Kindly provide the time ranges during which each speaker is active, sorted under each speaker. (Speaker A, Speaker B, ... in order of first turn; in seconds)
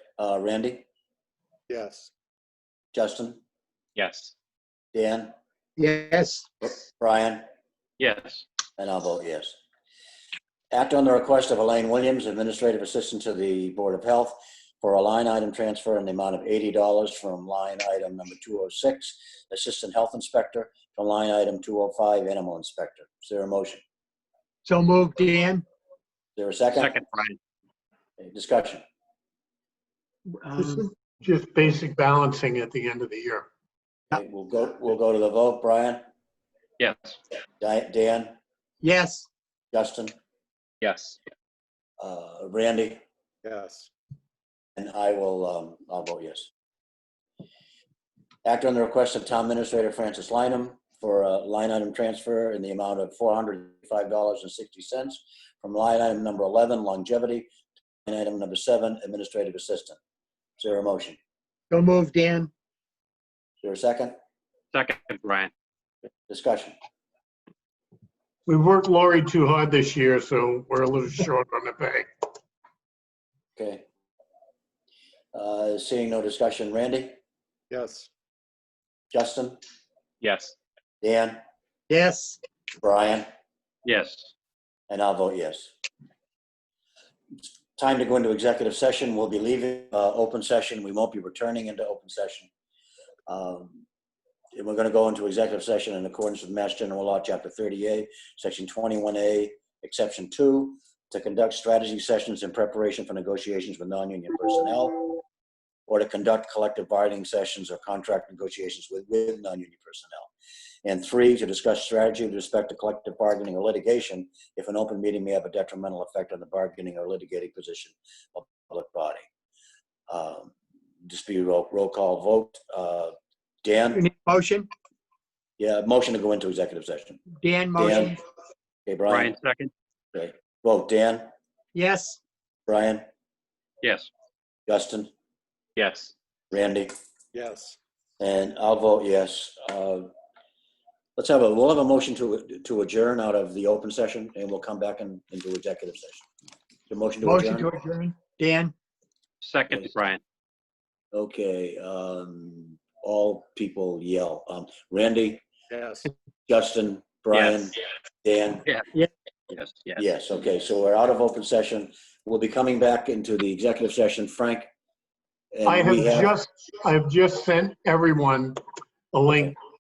Speaker A: 0.2-0.8, 2.9-3.4, 4.9-5.3, 6.6-7.4, 8.8-9.6, 10.7-23.8, 26.4-27.0, 28.2-28.8, 34.1-36.0, 37.6-38.4, 39.7-40.1, 42.0-43.0, 44.8-46.5, 48.5-57.5, 58.1-60.0, 60.6-61.2, 63.6-64.2, 66.3-66.8, 73.6-73.8, 75.3-77.2, 79.1-79.6, 81.0-81.4, 82.8-83.3, 84.9-85.7, 87.8-92.5, 93.3-93.8, 94.5-105.1, 105.9-110.3, 110.8-119.2, 120.1-124.0, 125.6-127.2, 127.8-128.2, 128.9-129.3, 130.1-131.3, 132.7-133.1, 134.7-135.1, 136.5-136.9, 138.2-140.1, 141.2-146.3, 146.9-147.7, 151.1-155.4, 156.5-158.7, 160.0-164.7, 165.5-166.3
Speaker B: 1.7-2.1, 5.8-6.5, 24.7-25.6, 38.8-39.3, 43.4-43.9, 61.7-62.5, 77.7-78.1, 81.9-82.4, 124.0-124.7, 127.4-128.2, 131.7-132.2, 137.3-137.8, 147.2-148.7, 155.7-156.1
Speaker C: 4.0-4.3, 8.0-8.4, 26.7-27.4, 36.8-37.2, 40.8-41.2, 64.7-65.5, 80.2-80.6, 83.8-84.3, 129.1-129.7, 133.8-134.1, 135.8-136.1, 149.4-150.2, 157.3-157.7, 159.5-160.0
Speaker D: 30.4-33.5, 68.5-72.1, 165.7-168.6, 169.1-169.6